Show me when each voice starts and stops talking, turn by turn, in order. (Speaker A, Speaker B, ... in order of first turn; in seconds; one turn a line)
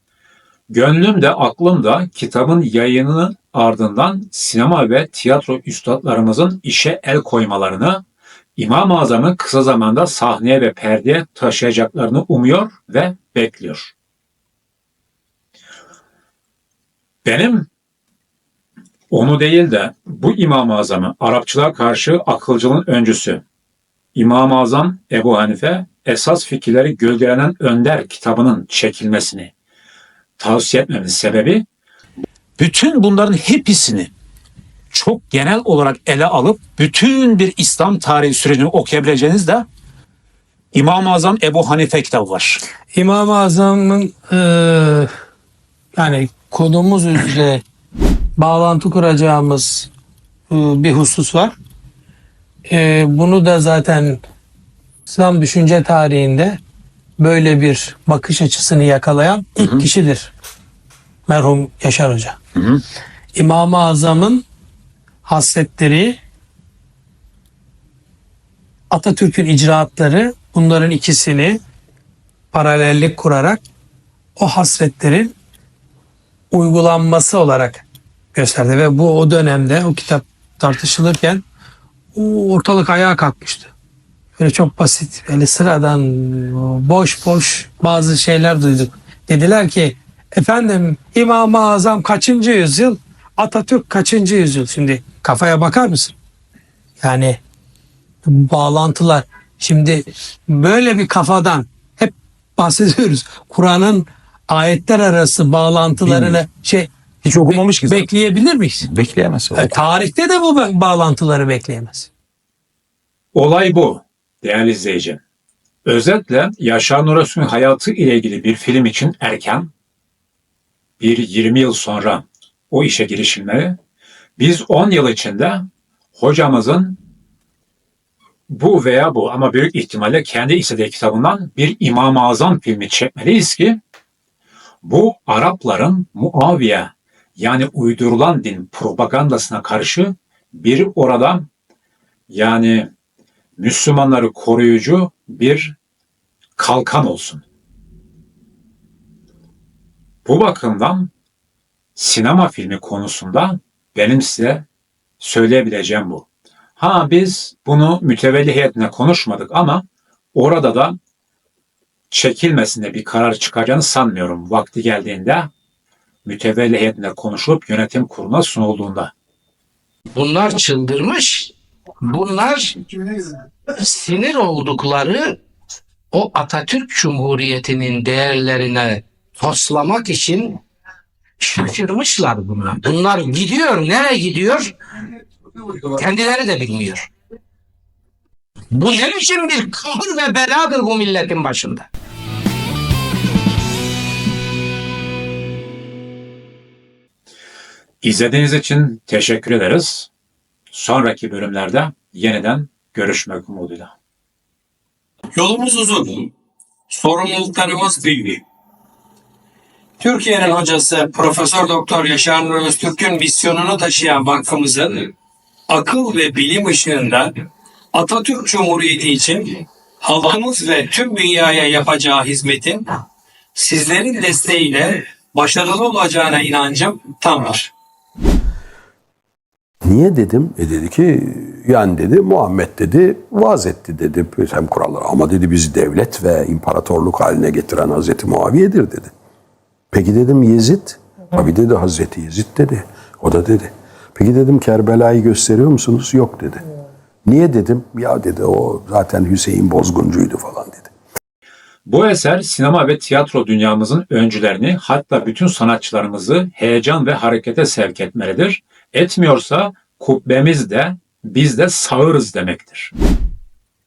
Speaker A: 0.7-8.0
Speaker A: 8.6-13.9
Speaker A: 17.2-17.7
Speaker A: 19.1-23.4
Speaker A: 24.1-29.5
Speaker A: 30.4-31.6
Speaker A: 32.6-34.1
Speaker A: 34.9-39.7
Speaker A: 40.7-42.6
Speaker B: 42.9-45.1
Speaker B: 46.0-47.6
Speaker B: 48.4-49.9
Speaker B: 50.5-51.6
Speaker B: 52.7-54.2
Speaker B: 55.1-56.6
Speaker B: 57.2-60.3
Speaker A: 59.6-59.9
Speaker B: 61.3-62.4
Speaker A: 62.6-62.8
Speaker B: 63.4-64.4
Speaker B: 65.2-66.2
Speaker B: 68.9-71.6
Speaker B: 72.5-73.6
Speaker B: 74.4-75.3
Speaker B: 76.5-77.8
Speaker B: 78.3-81.4
Speaker B: 82.2-83.7
Speaker B: 84.4-96.2
Speaker B: 97.0-97.4
Speaker B: 98.3-106.9
Speaker C: 106.0-106.4
Speaker C: 107.2-108.1
Speaker B: 107.4-108.9
Speaker C: 108.8-109.8
Speaker B: 109.5-112.1
Speaker A: 113.3-115.2
Speaker A: 115.9-119.7
Speaker A: 121.0-123.8
Speaker A: 124.4-127.0
Speaker A: 128.5-133.8
Speaker A: 134.8-141.5
Speaker A: 142.3-142.9
Speaker A: 143.6-145.8
Speaker A: 146.6-147.4
Speaker A: 150.2-151.1
Speaker A: 152.0-154.7
Speaker A: 155.2-156.3
Speaker A: 156.8-161.0
Speaker A: 162.1-165.5
Speaker A: 166.2-169.1
Speaker D: 170.2-172.8
Speaker D: 173.8-175.4
Speaker D: 176.1-180.6
Speaker D: 181.4-184.7
Speaker D: 185.8-187.1
Speaker D: 188.7-191.9
Speaker A: 198.0-200.1
Speaker A: 200.7-204.0
Speaker B: 205.4-206.3
Speaker B: 206.9-208.4
Speaker B: 210.0-215.1
Speaker B: 215.7-217.3
Speaker B: 217.9-222.8
Speaker B: 223.6-227.7
Speaker E: 229.8-239.1
Speaker E: 239.9-246.6
Speaker E: 247.2-250.9
Speaker A: 251.9-262.9